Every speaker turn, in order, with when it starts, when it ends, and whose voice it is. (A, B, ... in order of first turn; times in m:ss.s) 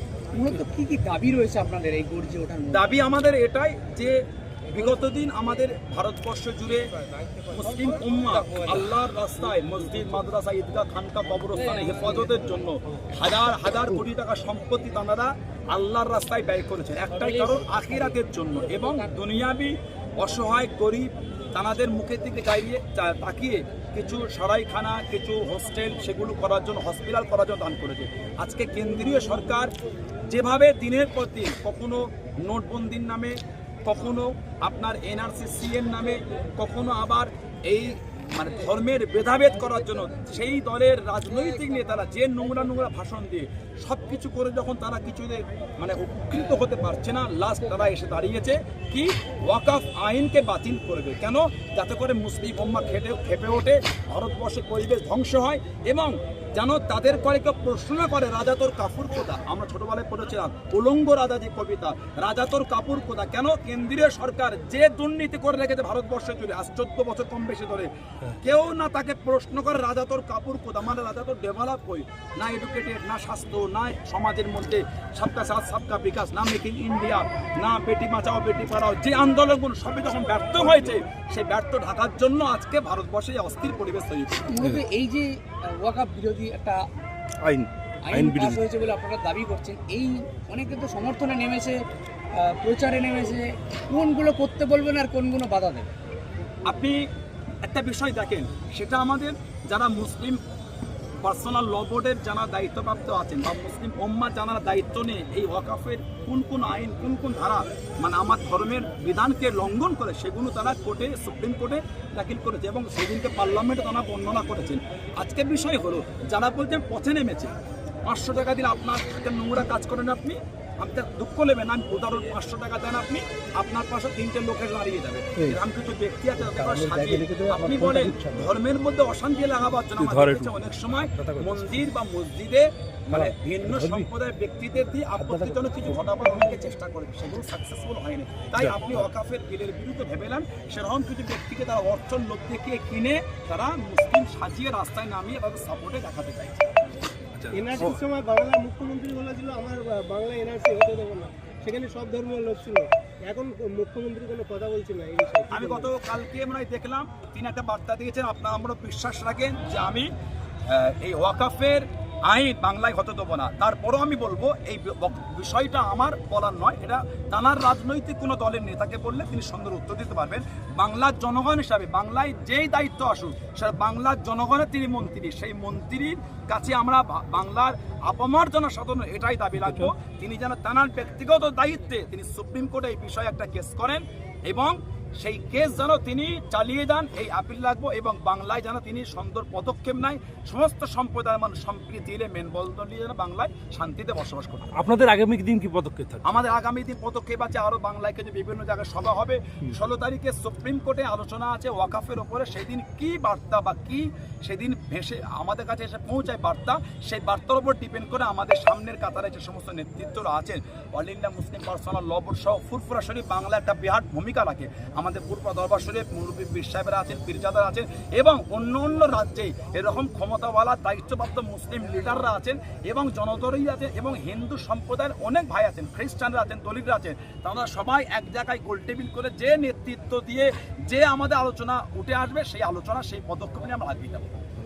0:00.3-0:03.0 A
0:02.7-0:06.9 B
0:07.4-0:29.7 B
0:30.3-1:24.5 B
1:20.6-1:20.9 C
1:24.5-1:26.8 A
1:27.4-1:28.6 C
1:28.0-1:31.8 A
1:32.4-1:35.9 A
1:36.7-1:37.0 B
1:37.6-1:40.4 B
1:41.2-1:57.5 B
1:58.0-2:26.7 B
2:06.6-2:08.5 C
2:10.0-2:10.5 C
2:11.1-2:11.8 C
2:13.1-2:14.1 C
2:15.2-2:16.0 C
2:18.6-2:19.0 C
2:27.3-2:27.9 C
2:27.5-2:35.9 D
2:35.5-2:40.1 B
2:40.7-3:14.7 B
2:59.6-2:59.9 C
3:14.7-3:16.2 C
3:16.2-3:54.4 B